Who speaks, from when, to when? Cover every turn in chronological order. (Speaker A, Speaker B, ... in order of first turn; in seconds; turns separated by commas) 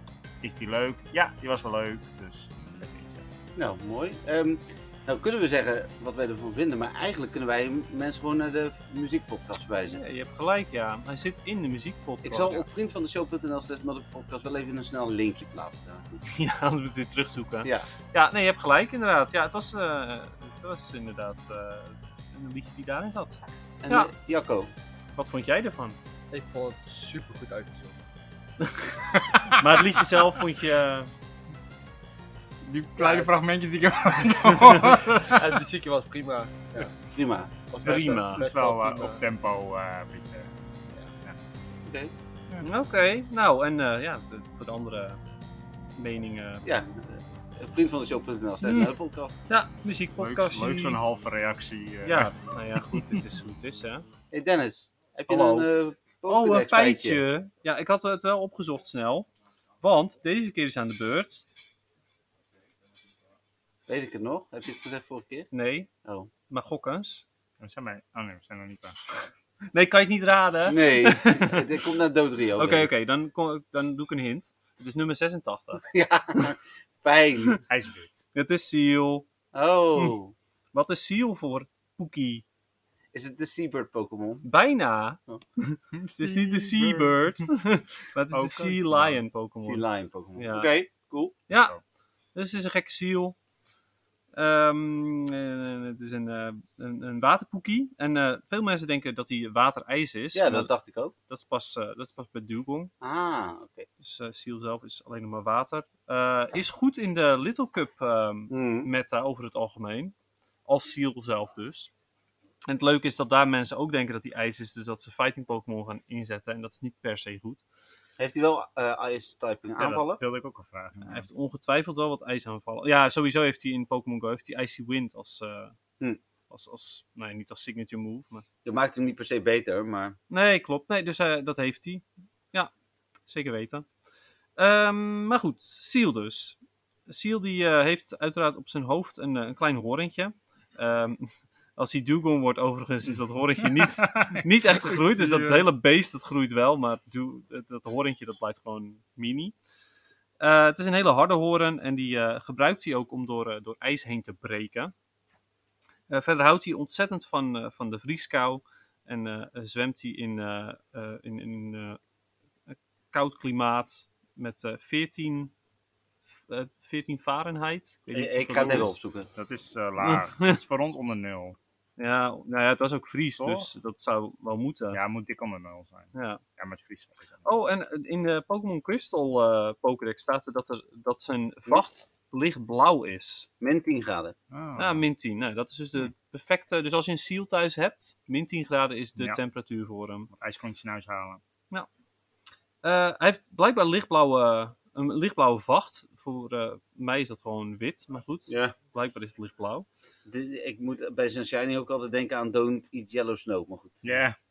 Speaker A: 0.4-3.3, Speaker B: 3.5-10.0, Speaker C: 9.9-12.7, Speaker B: 12.2-16.2, Speaker C: 16.2-24.1, Speaker B: 23.8-24.7, Speaker C: 25.2-26.0, Speaker D: 26.3-28.0, Speaker C: 28.6-31.1, Speaker A: 32.6-35.4, Speaker D: 33.0-33.3, Speaker D: 35.0-37.0, Speaker B: 37.1-37.5, Speaker D: 37.7-39.2, Speaker C: 37.8-38.5, Speaker A: 37.9-40.5, Speaker B: 41.8-42.1, Speaker C: 42.6-45.2, Speaker C: 46.0-46.7, Speaker B: 46.6-49.4, Speaker C: 48.6-48.9, Speaker C: 49.5-51.0, Speaker A: 50.2-52.4, Speaker C: 52.0-54.0, Speaker B: 54.3-57.2, Speaker C: 55.3-55.7, Speaker C: 56.3-59.3, Speaker C: 59.8-61.5, Speaker B: 63.9-65.5, Speaker C: 65.5-65.9, Speaker B: 66.0-66.3, Speaker C: 66.5-67.2, Speaker A: 67.6-69.0, Speaker C: 69.7-71.7, Speaker B: 70.7-72.9, Speaker C: 72.6-75.8, Speaker B: 75.8-77.6, Speaker A: 77.7-78.2, Speaker C: 78.3-79.2, Speaker B: 79.5-80.3, Speaker C: 80.7-82.4, Speaker B: 83.1-84.4, Speaker C: 84.4-89.8, Speaker A: 85.9-87.4, Speaker A: 88.3-89.2, Speaker B: 89.6-91.3, Speaker C: 90.3-90.7, Speaker C: 91.5-91.8, Speaker A: 91.5-91.8, Speaker C: 92.3-93.3, Speaker C: 94.3-100.7, Speaker B: 100.3-101.1, Speaker C: 101.3-102.9, Speaker B: 103.0-103.8, Speaker C: 104.0-110.1, Speaker B: 108.5-108.9, Speaker C: 110.7-111.9, Speaker C: 112.7-117.6, Speaker B: 118.2-120.2, Speaker A: 119.8-121.3, Speaker C: 121.0-125.8, Speaker C: 126.5-128.4, Speaker B: 128.6-130.2, Speaker C: 130.3-132.7, Speaker C: 133.3-133.9, Speaker C: 134.6-149.5, Speaker A: 143.8-145.7, Speaker C: 150.4-154.9, Speaker C: 156.1-162.0, Speaker C: 162.7-165.5, Speaker C: 166.5-169.0, Speaker B: 168.1-169.3, Speaker A: 169.3-171.6, Speaker C: 170.0-170.5, Speaker C: 172.0-175.0, Speaker A: 173.4-173.7, Speaker A: 174.9-177.4, Speaker C: 176.1-176.4, Speaker C: 177.4-183.5, Speaker B: 183.6-184.3, Speaker A: 184.5-185.0, Speaker C: 184.8-190.3, Speaker A: 190.3-191.4, Speaker C: 192.8-199.8, Speaker B: 198.5-198.7, Speaker B: 200.2-204.1, Speaker A: 204.0-204.4